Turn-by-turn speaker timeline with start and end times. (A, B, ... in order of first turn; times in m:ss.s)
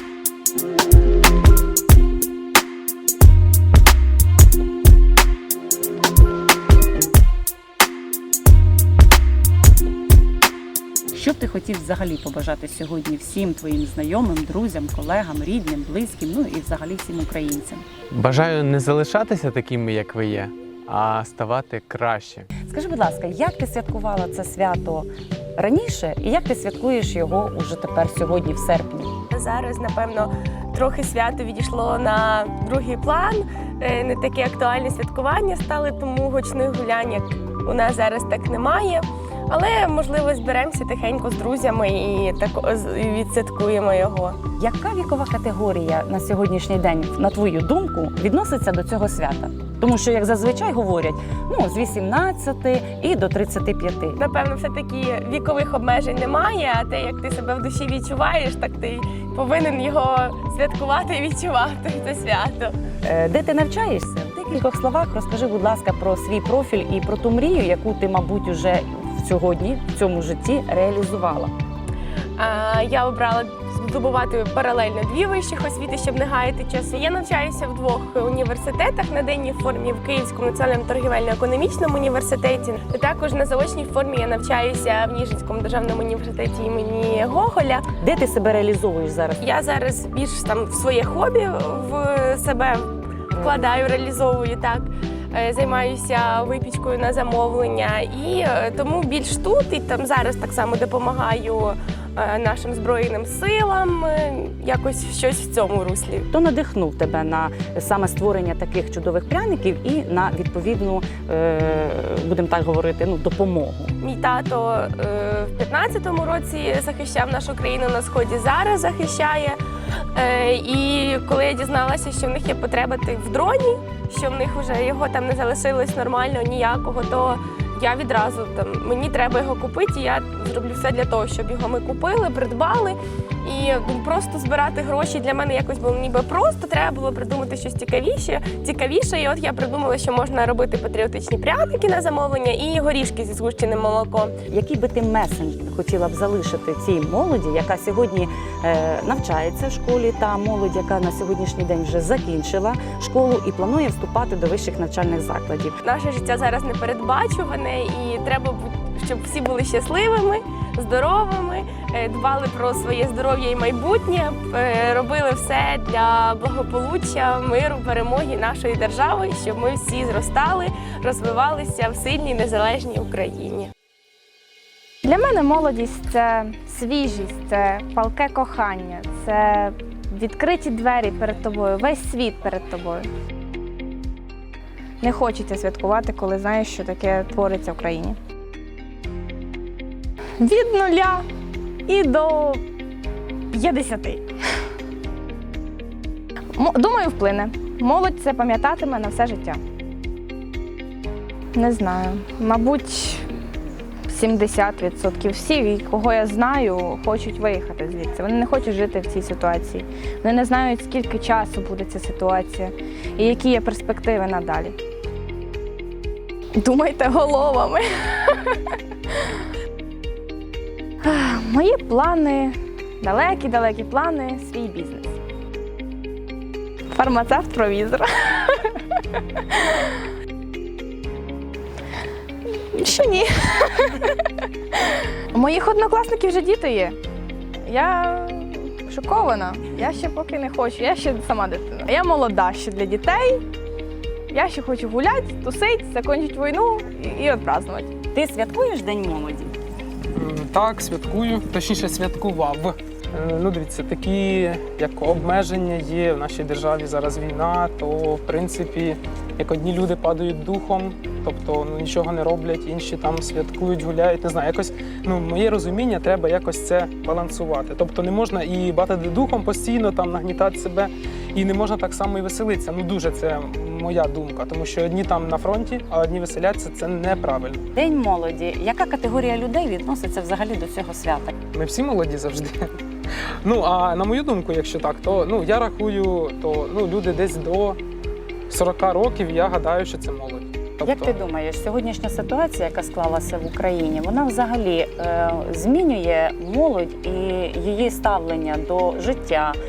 0:11.1-0:17.8 A
0:18.1-0:22.5 B
0:22.7-0:29.1 A
0:29.3-0:44.4 C
0:44.6-0:54.2 A
0:54.2-1:02.8 C
1:03.0-1:11.5 A
1:12.4-1:27.8 C
1:28.0-1:29.4 A
1:29.4-1:46.3 C
1:46.3-1:54.0 A
1:54.0-1:59.6 C
2:00.1-2:24.3 C
2:24.5-2:35.8 A
2:35.8-2:53.7 C
2:55.0-3:03.1 D
3:05.0-3:08.2 D
3:10.4-3:11.2 D
3:11.9-3:12.6 D
3:13.5-3:14.2 D
3:16.5-3:19.6 D
3:21.5-3:23.2 D
3:24.1-3:34.7 D
3:36.6-3:38.5 D
3:41.0-3:45.2 D
3:46.9-3:48.6 D
3:52.7-3:53.9 D
3:55.3-3:57.0 D
3:57.6-4:03.4 D
4:04.3-4:07.9 D
4:08.1-4:09.5 A
4:10.2-4:37.6 E
4:37.7-4:41.3 A
4:41.5-4:42.6 E
4:43.4-4:47.8 E
4:48.5-4:51.2 E
4:50.8-4:59.6 A